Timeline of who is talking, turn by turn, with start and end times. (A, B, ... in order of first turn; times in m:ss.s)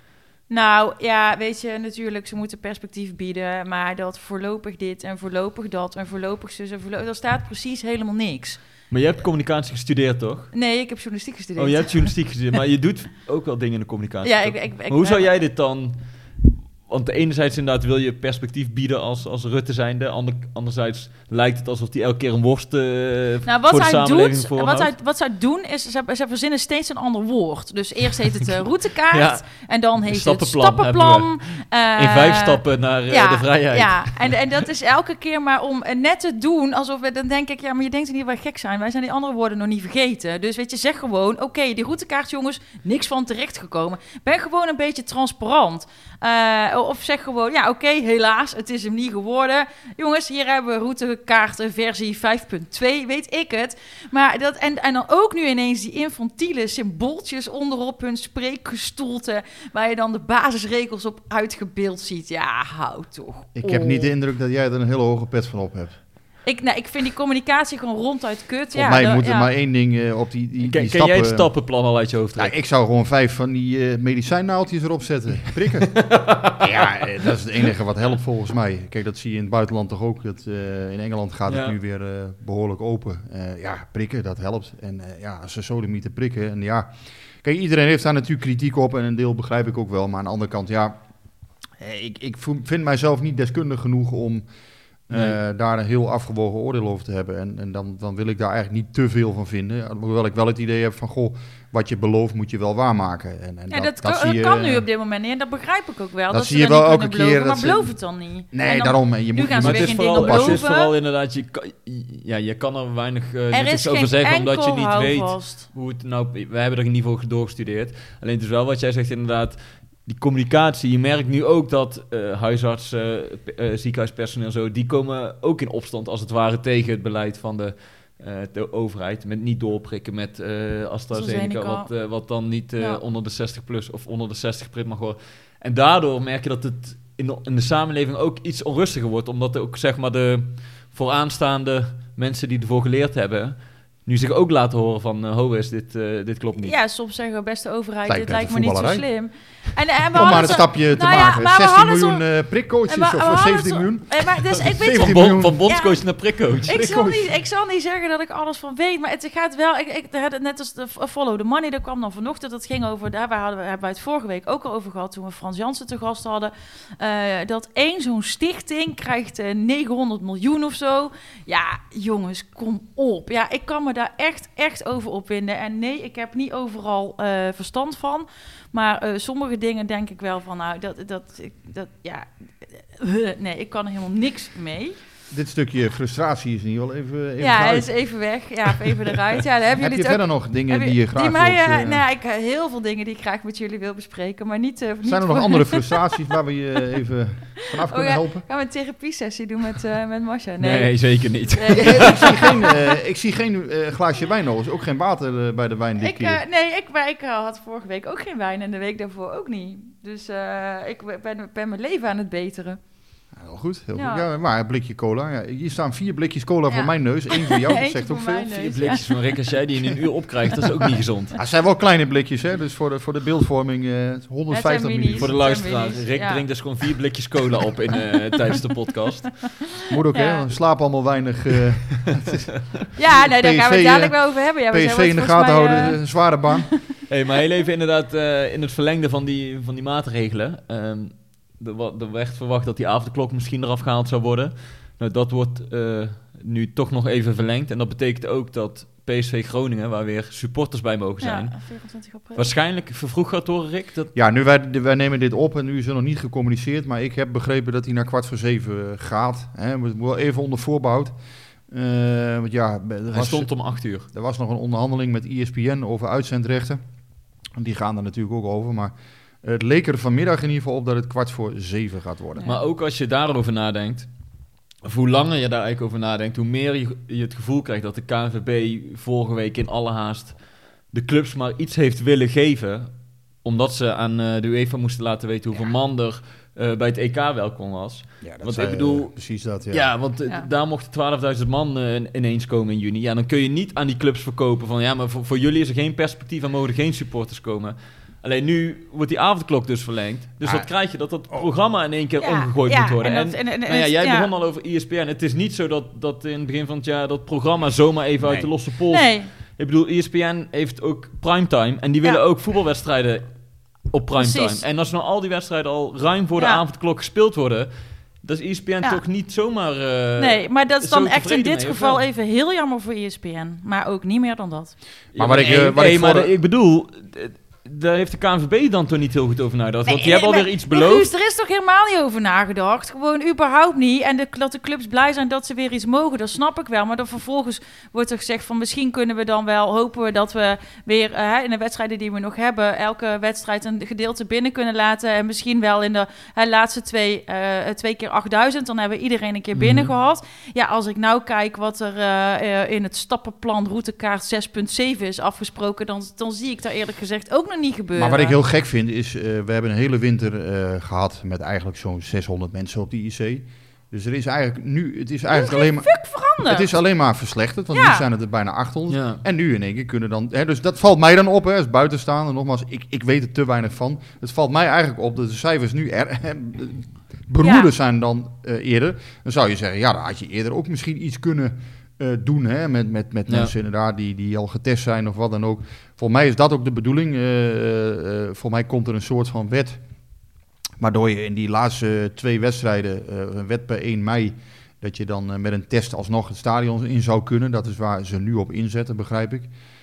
0:00.5-0:08.6 A
0:08.9-0:10.5 B
0:10.5-0:12.1 A
0:11.6-0:24.9 B
0:14.2-0:15.3 A
0:23.4-1:04.1 A
0:29.1-0:29.4 B
0:30.0-0:34.3 B
1:03.5-1:06.0 C
1:06.4-1:09.5 A
1:08.7-1:11.5 C
1:10.6-1:12.5 B
1:12.4-1:16.1 C
1:15.9-1:17.3 B
1:16.6-1:31.0 C
1:21.5-1:21.8 B
1:31.8-1:34.4 C
1:35.1-1:44.8 C
1:35.1-1:35.4 B
1:43.7-1:50.9 A
1:46.3-1:47.9 C
1:48.5-1:50.7 C
1:49.6-2:26.7 B
1:53.5-1:55.7 A
2:11.1-2:11.9 A
2:26.6-2:32.2 A
2:28.0-2:29.0 C
2:30.1-2:35.6 C
2:32.9-3:05.0 A
2:34.6-2:37.1 B
2:36.6-2:37.1 C
3:05.3-3:07.9 C
3:07.4-3:16.2 A
3:09.8-3:12.0 C
3:15.0-3:18.4 C
3:17.9-3:22.5 A
3:20.6-3:22.4 B
3:21.7-3:26.4 C
3:26.0-3:32.8 A
3:33.3-3:38.6 C
3:33.9-3:34.2 A
3:36.7-3:39.0 A
3:38.5-3:41.4 B
3:41.4-3:45.3 C
3:44.5-3:46.4 A
3:45.2-3:49.6 B
3:49.9-3:56.7 C
3:50.1-3:50.4 A
3:52.9-3:56.1 A
3:57.1-4:11.7 B
4:11.2-4:12.5 A
4:12.3-4:14.1 B
4:14.1-4:21.1 C
4:21.7-4:26.8 C
4:23.1-4:24.1 B
4:27.6-4:32.5 C
4:32.4-4:34.1 B
4:34.8-4:49.1 B
4:48.2-4:49.9 C
4:49.7-5:13.3 B
5:00.4-5:00.7 C
5:02.2-5:04.3 A
5:08.2-5:08.5 C
5:08.9-5:09.3 A
5:13.8-5:22.0 B
5:14.2-5:14.6 A
5:16.4-5:16.6 A
5:20.2-5:24.8 A
5:25.1-5:31.1 B
5:25.1-5:26.3 C
5:29.9-5:58.4 A
5:58.0-6:29.8 C
6:05.3-6:06.7 A
6:07.7-6:08.0 A
6:08.9-6:09.2 B
6:17.4-6:17.7 A
6:30.8-6:39.5 C